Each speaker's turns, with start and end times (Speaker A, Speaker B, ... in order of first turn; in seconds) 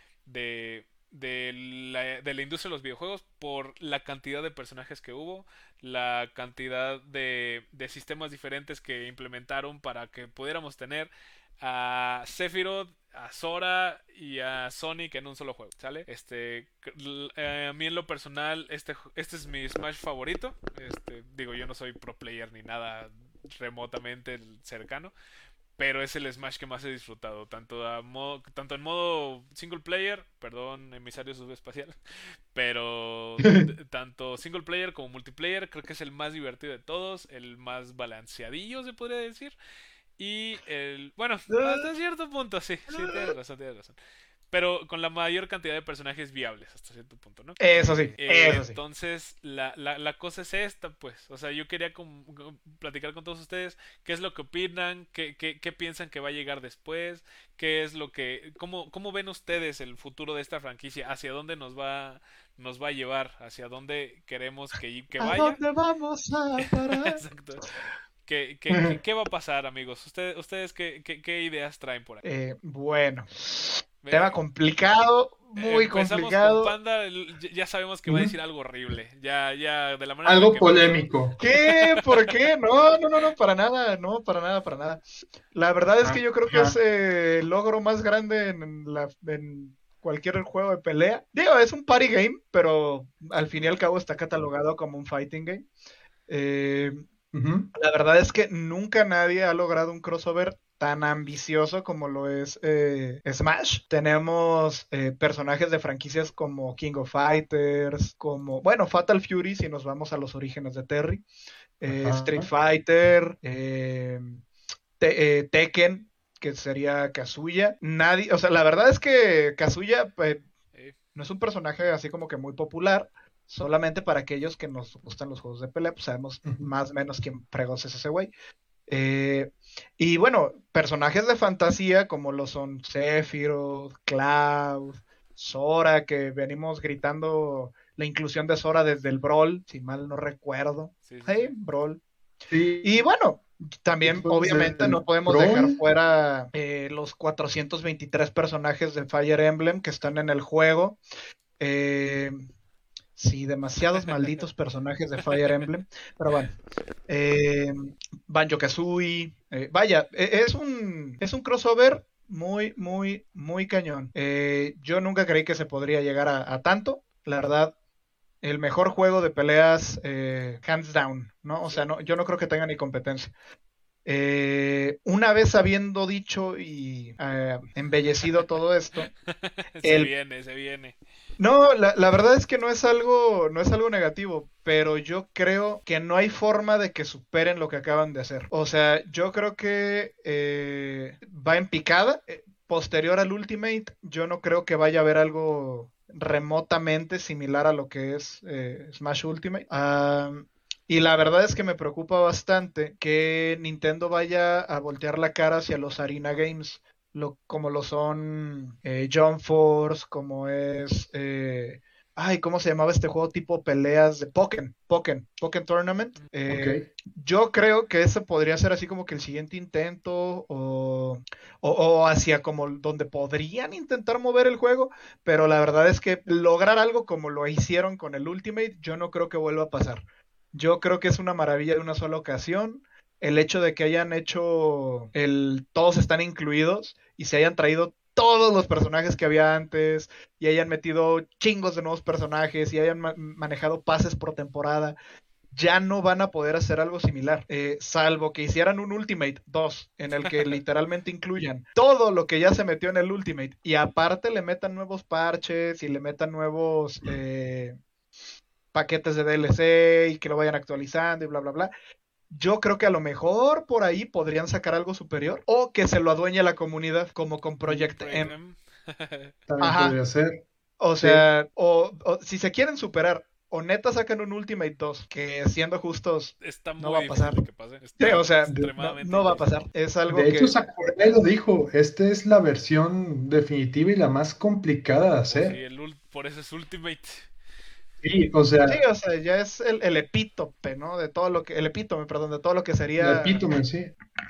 Speaker A: 0.3-25.1, 25.8-31.9, 32.5-39.5, 40.2-44.0, 44.5-65.6, 66.9-67.7, 68.3-72.2, 74.0-74.4, 75.6-82.3, 141.1-141.5, 179.4-181.0, 250.2-250.6, 267.7-269.3, 276.4-279.5, 285.2-287.3
Speaker B: 33.4-33.7, 68.7-69.0, 78.1-78.3, 80.2-81.4, 86.0-86.8, 97.3-97.7, 111.9-112.5, 126.4-126.7, 142.5-143.0, 144.0-145.8, 216.5-216.9, 269.5-270.4, 271.0-271.2, 280.1-285.6, 288.0-288.8, 293.0-293.9
Speaker C: 41.5-41.9, 42.9-43.3, 47.6-48.8, 65.2-67.2, 72.2-76.7, 81.4-85.0, 85.5-95.7, 96.3-97.0, 97.8-111.2, 111.8-114.4, 115.0-120.4, 121.2-128.3, 128.9-142.0, 142.8-151.0, 151.6-152.4, 153.2-156.5, 157.1-167.7, 168.4-173.3, 174.1-179.1, 179.8-180.1, 181.4-245.0, 245.5-257.8, 258.7-261.7, 262.3-268.3, 269.6-270.0, 270.8-277.4, 278.0-280.6, 288.6-293.5